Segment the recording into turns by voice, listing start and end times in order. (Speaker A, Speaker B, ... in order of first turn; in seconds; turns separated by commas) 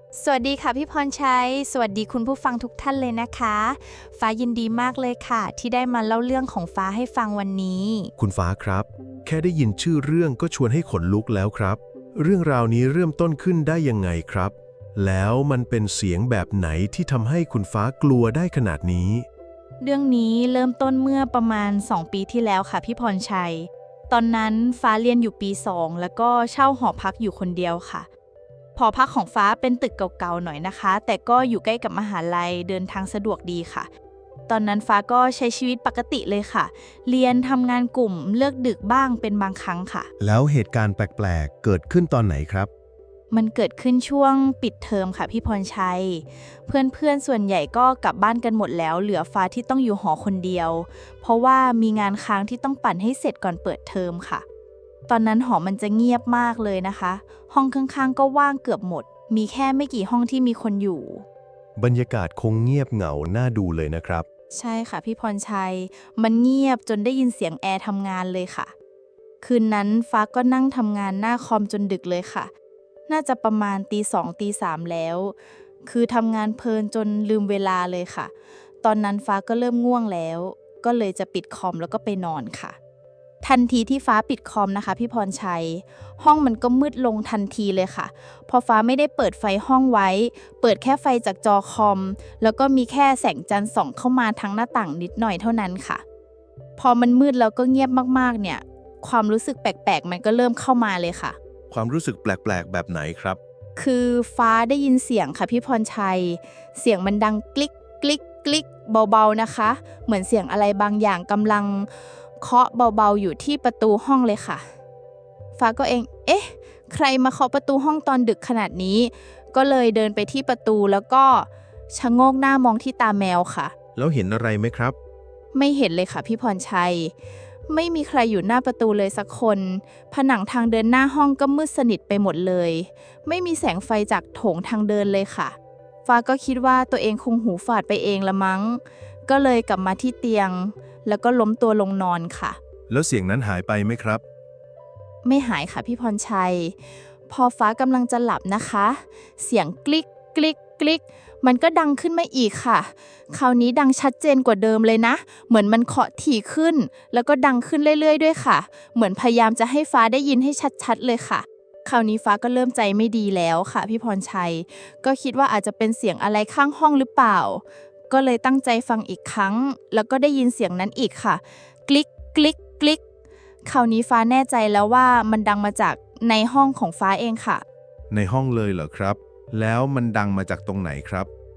Speaker A: 0.2-8.1, Speaker B: 8.2-19.2, Speaker A: 19.8-28.1, Speaker A: 28.7-33.9, Speaker A: 34.5-40.1, Speaker B: 40.2-42.7, Speaker A: 43.3-54.4, Speaker A: 55.1-61.2, Speaker B: 61.8-64.2, Speaker A: 64.5-68.7, Speaker A: 69.4-72.5, Speaker A: 73.1-78.3, Speaker A: 78.8-82.8, Speaker A: 83.4-96.0, Speaker A: 96.8-101.4, Speaker B: 101.7-103.4, Speaker A: 103.8-114.6, Speaker A: 115.6-123.7, Speaker B: 124.0-125.0, Speaker A: 125.5-127.1, Speaker A: 127.7-142.6, Speaker B: 142.9-144.2, Speaker A: 145.2-146.8, Speaker A: 147.3-173.0, Speaker A: 173.6-177.6, Speaker B: 178.1-181.3